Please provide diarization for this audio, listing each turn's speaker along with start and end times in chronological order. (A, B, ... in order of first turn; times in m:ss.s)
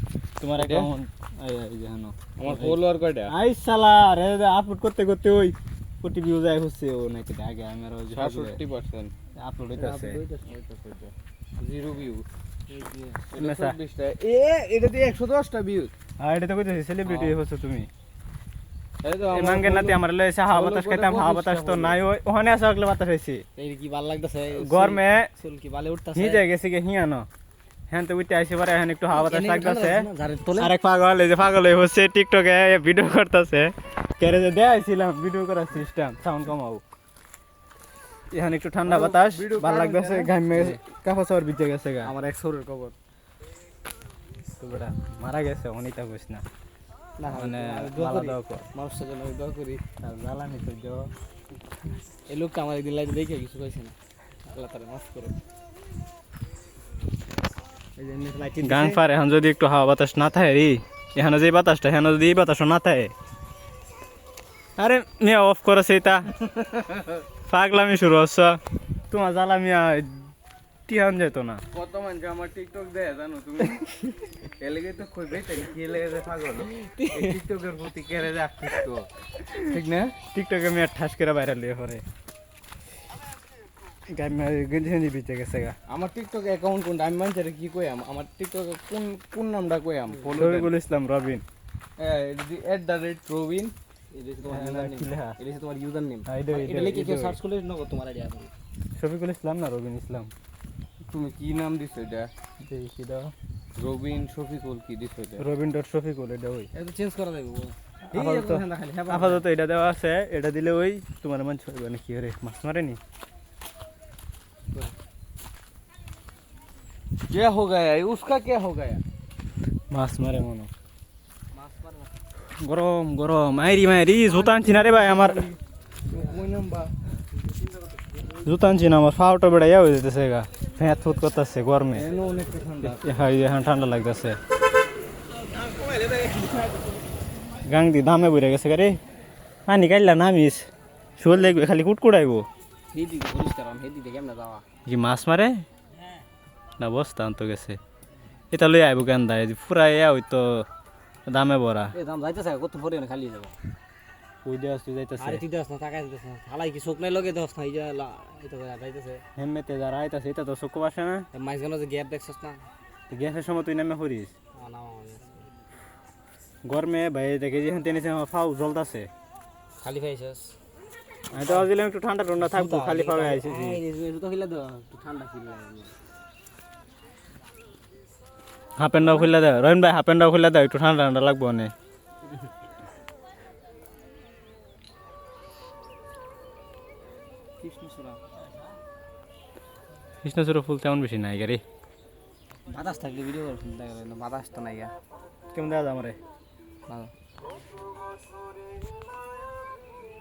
0:00.4-0:02.8 A
0:00.6-0:00.9 B
0:02.4-0:03.3 B
0:03.3-0:08.6 A
0:08.1-0:09.1 B
0:09.4-0:10.2 A
0:09.8-0:10.5 C
0:10.4-0:12.2 B
0:12.7-0:13.2 C
0:13.3-0:15.9 B
0:13.4-0:13.8 A
0:16.2-0:17.9 A
0:17.1-0:17.3 C
0:19.0-0:22.0 B
0:19.3-0:23.4 A
0:23.6-0:26.4 C
0:24.5-0:25.3 A
0:26.1-0:27.2 A
0:27.9-0:36.8 A
0:29.1-0:30.7 C
0:38.3-0:42.1 A
0:38.8-0:40.3 B
0:40.5-0:40.8 C
0:42.0-0:43.0 C
0:44.6-0:46.4 A
0:47.2-0:50.0 C
0:47.3-0:48.7 A
0:50.0-0:51.0 A
0:52.3-0:55.4 C
0:58.0-0:59.0 C
0:58.6-1:03.1 A
1:04.8-1:06.3 A
1:06.8-1:07.1 B
1:07.4-1:08.6 A
1:09.1-1:10.3 A
1:10.9-1:11.6 A
1:11.7-1:13.8 B
1:14.6-1:19.0 B
1:16.7-1:17.3 C
1:19.6-1:22.0 A
1:19.7-1:20.2 B
1:24.1-1:25.8 A
1:25.9-1:30.7 B
1:30.3-1:31.4 A
1:32.0-1:33.7 B
1:34.1-1:38.5 C
1:34.5-1:35.4 A
1:36.3-1:37.4 A
1:38.9-1:40.3 A
1:41.1-1:42.3 B
1:42.6-1:43.3 A
1:43.8-1:45.4 B
1:45.4-1:46.7 A
1:46.7-1:49.4 C
1:48.1-1:53.0 A
1:57.3-1:59.0 B
1:59.9-2:00.7 A
2:01.5-2:02.2 C
2:02.6-2:05.5 A
2:04.5-2:05.4 C
2:06.1-2:06.9 B
2:08.4-2:12.1 A
2:11.9-2:13.3 B
2:12.8-2:14.4 A
2:16.1-2:16.4 B
2:17.6-2:19.0 A
2:19.7-2:20.7 A
2:21.2-2:22.4 A
2:22.9-2:24.6 C
2:24.8-2:25.6 A
2:26.8-2:27.8 A
2:28.5-2:30.7 A
2:31.3-2:31.9 A
2:31.9-2:33.5 C
2:34.4-2:35.4 A
2:35.2-2:39.2 C
2:39.4-2:41.3 A
2:41.3-2:42.7 C
2:43.1-2:44.3 A
2:44.5-2:45.5 C
2:46.6-2:49.1 A
2:49.8-2:50.5 C
2:51.3-2:53.8 A
2:51.4-2:51.7 C
2:52.4-2:55.9 C
2:58.8-3:01.7 A
2:59.0-2:59.3 C
3:07.6-3:08.2 C
3:10.2-3:11.6 A
3:12.7-3:14.9 C
3:15.5-3:16.2 A